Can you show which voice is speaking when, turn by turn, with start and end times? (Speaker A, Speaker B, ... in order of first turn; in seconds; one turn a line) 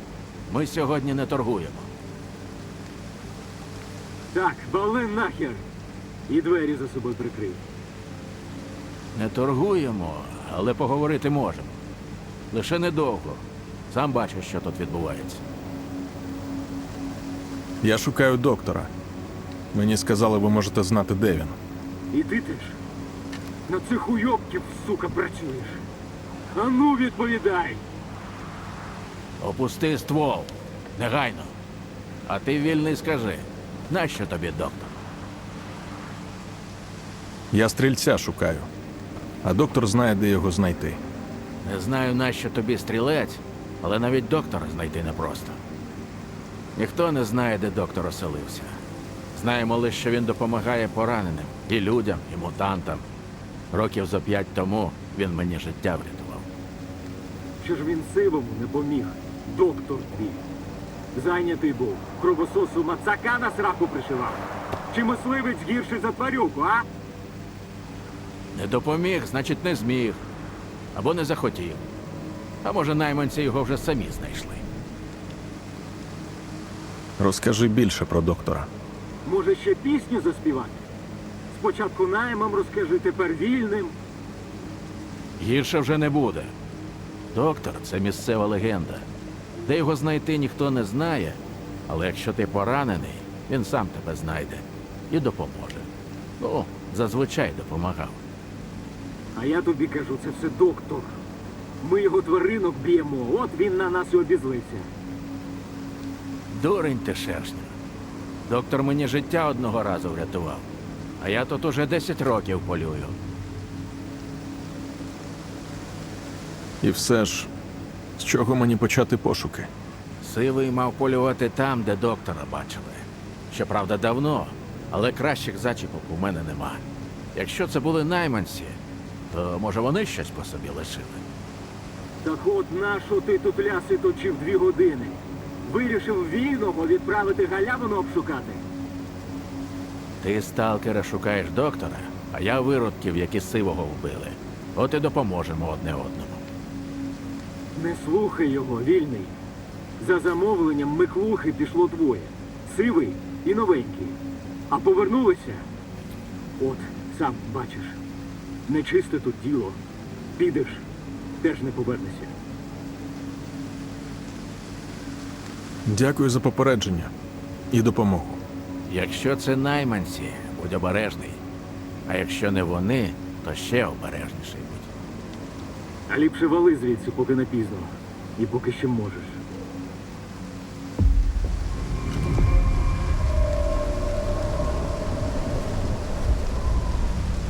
Speaker A: 0.5-1.9
Speaker B: 4.3-5.7
Speaker B: 6.3-7.6
Speaker A: 9.1-11.8
Speaker A: 12.5-15.4
Speaker C: 17.8-18.9
Speaker C: 19.7-21.6
Speaker B: 22.1-22.8
Speaker B: 23.7-25.8
Speaker B: 26.5-27.8
Speaker A: 29.4-31.6
Speaker A: 32.2-35.0
Speaker C: 37.5-38.7
Speaker C: 39.4-41.0
Speaker A: 41.6-45.6
Speaker A: 46.8-48.8
Speaker A: 49.3-53.0
Speaker A: 53.7-56.5
Speaker B: 57.6-60.4
Speaker B: 61.1-66.9
Speaker A: 68.5-70.2
Speaker A: 70.9-71.8
Speaker A: 72.6-74.6
Speaker C: 77.2-78.7
Speaker B: 79.2-80.8
Speaker B: 81.5-83.9
Speaker A: 85.4-86.5
Speaker A: 87.3-89.0
Speaker A: 89.6-98.2
Speaker B: 99.3-101.2
Speaker B: 101.8-104.9
Speaker A: 106.5-107.7
Speaker A: 108.5-110.7
Speaker A: 111.2-113.2
Speaker C: 116.8-117.5
Speaker C: 118.2-119.7
Speaker A: 120.2-131.2
Speaker B: 132.2-138.6
Speaker A: 140.2-146.4
Speaker B: 147.7-149.4
Speaker B: 150.0-154.2
Speaker B: 154.7-155.7
Speaker B: 156.6-158.0
Speaker B: 158.7-159.8
Speaker B: 160.3-160.9
Speaker B: 161.4-162.3
Speaker C: 165.8-167.1
Speaker C: 167.7-168.4
Speaker A: 168.9-171.4
Speaker A: 172.1-174.9
Speaker B: 176.1-179.4